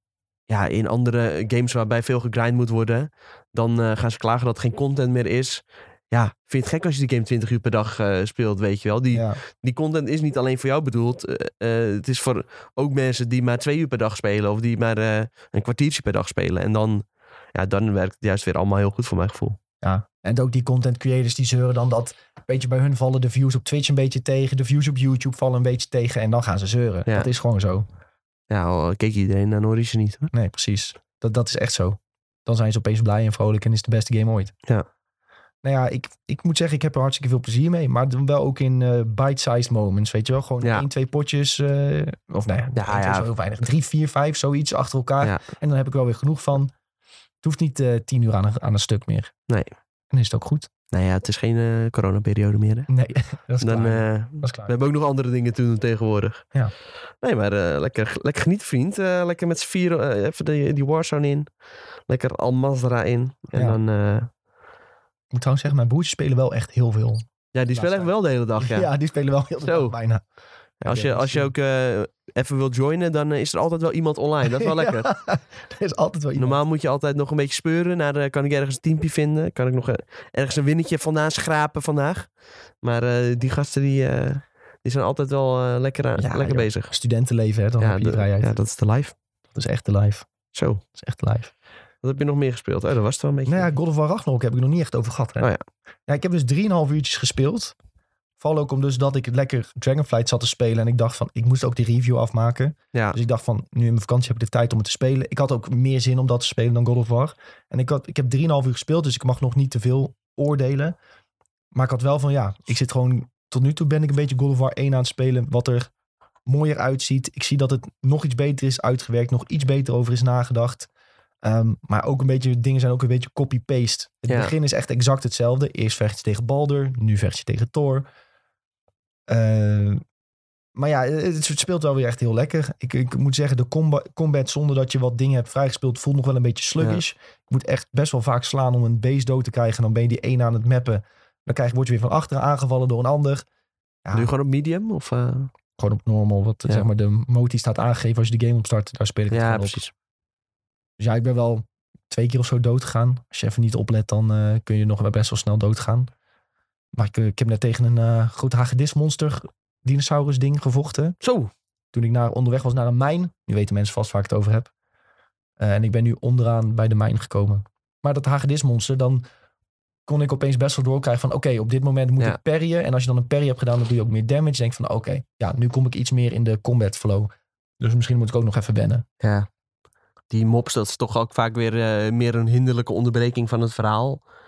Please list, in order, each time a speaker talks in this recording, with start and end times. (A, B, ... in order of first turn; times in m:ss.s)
0:00.5-0:19.6 A
0:09.1-0:09.4 B
0:19.8-0:27.8 B
0:28.5-0:30.3 A
0:30.3-0:34.5 B
0:35.6-0:46.7 B
0:40.6-0:40.9 A
0:42.7-0:43.3 A
0:47.4-0:49.3 B
0:50.1-0:50.7 B
0:50.9-0:52.9 A
0:52.9-0:54.7 B
0:53.6-0:56.4 A
0:57.2-1:01.5 A
1:02.1-1:04.3 A
1:03.5-1:03.8 B
1:05.3-1:10.2 B
1:07.5-1:08.9 A
1:09.6-1:09.9 A
1:10.8-1:15.1 A
1:10.8-1:11.5 B
1:14.4-1:16.6 B
1:16.4-1:22.3 A
1:22.8-1:26.9 A
1:26.2-1:28.6 B
1:27.8-1:29.1 A
1:29.5-1:30.2 B
1:30.5-1:30.8 A
1:30.9-1:31.5 B
1:32.0-1:33.7 A
1:33.4-1:35.5 B
1:36.1-1:37.7 B
1:38.4-1:51.0 B
1:51.7-1:55.9 B
1:56.4-2:00.9 B
2:01.4-2:08.1 B
2:04.3-2:04.5 A
2:09.3-2:10.0 B
2:10.7-2:23.4 B
2:24.0-2:24.3 B
2:24.1-2:25.5 A
2:25.8-2:29.8 B
2:29.3-2:29.9 A
2:31.0-2:36.1 B
2:36.9-2:41.2 B
2:41.2-2:41.5 A
2:41.9-2:44.7 B
2:45.6-2:49.2 B
2:50.1-2:59.0 B
2:59.2-2:59.5 A
3:00.3-3:04.2 A